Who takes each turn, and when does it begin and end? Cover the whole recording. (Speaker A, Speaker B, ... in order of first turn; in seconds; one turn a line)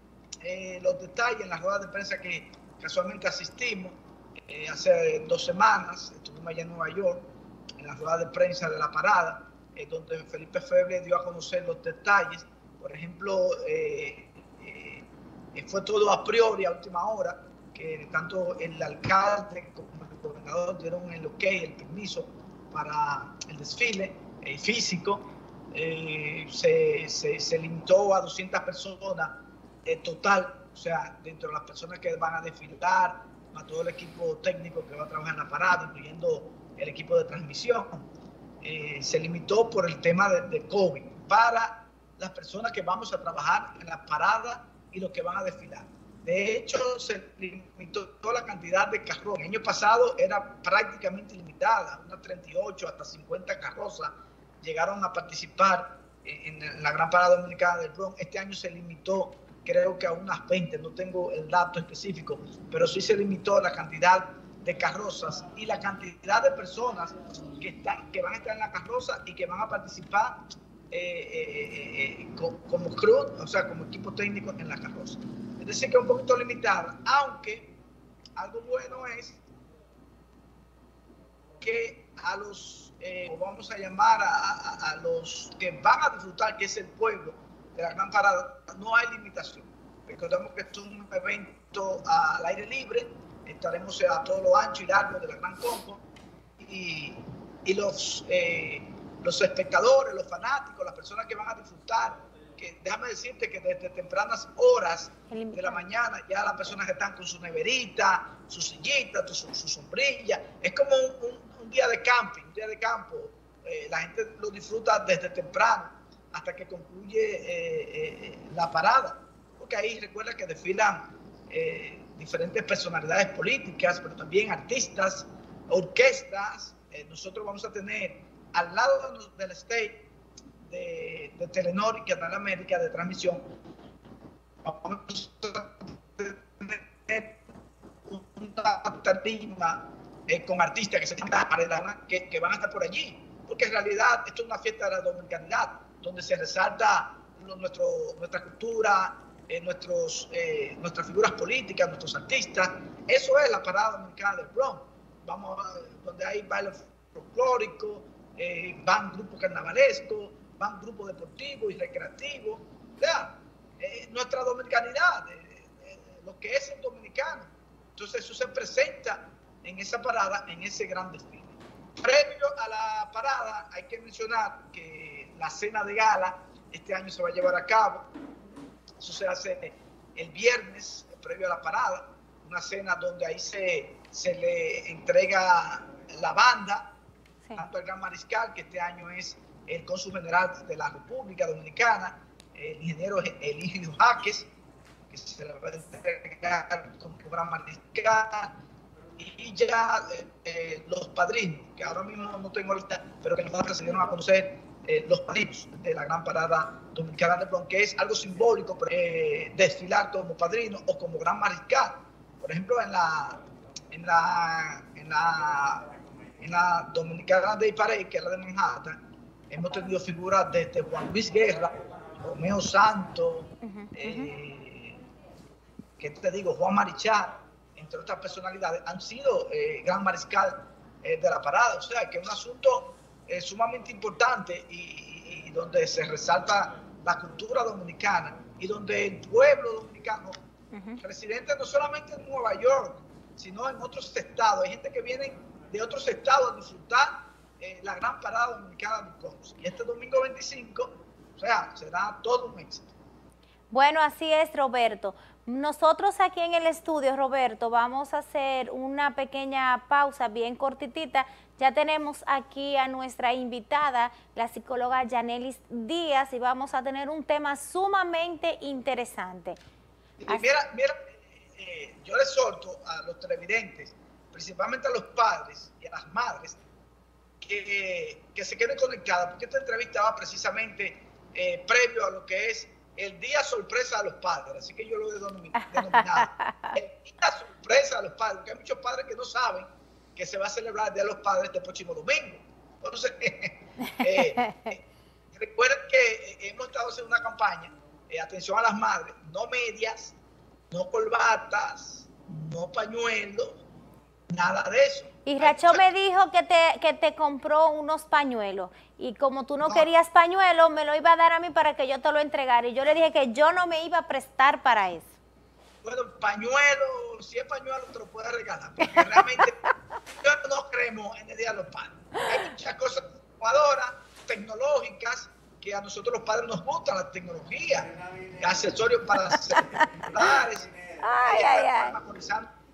Speaker A: 0.4-38.1
Speaker A: 38.6-70.4
Speaker A: 70.9-77.7
Speaker A: 78.3-79.4
Speaker A: 81.6-96.0
Speaker A: 96.6-130.0
Speaker B: 105.3-105.8
Speaker A: 130.6-133.4
Speaker A: 134.6-137.4
Speaker A: 138.1-178.1
Speaker A: 179.0-186.9
Speaker A: 187.5-194.5
Speaker A: 195.1-198.6
Speaker A: 199.2-213.4
Speaker A: 213.9-215.8
Speaker A: 216.4-219.0
Speaker A: 219.5-225.0
Speaker B: 223.6-224.3
Speaker A: 226.0-240.3
Speaker B: 240.7-241.0
Speaker A: 241.0-252.9
Speaker B: 253.7-269.6
Speaker A: 270.2-276.6
Speaker A: 277.4-294.8
Speaker B: 285.6-286.8
Speaker B: 293.9-294.7
Speaker A: 295.3-300.1
Speaker A: 300.7-303.6
Speaker A: 304.3-305.9
Speaker B: 305.2-315.2
Speaker A: 315.8-319.6
Speaker B: 318.9-319.2
Speaker A: 320.2-332.5
Speaker B: 331.0-331.9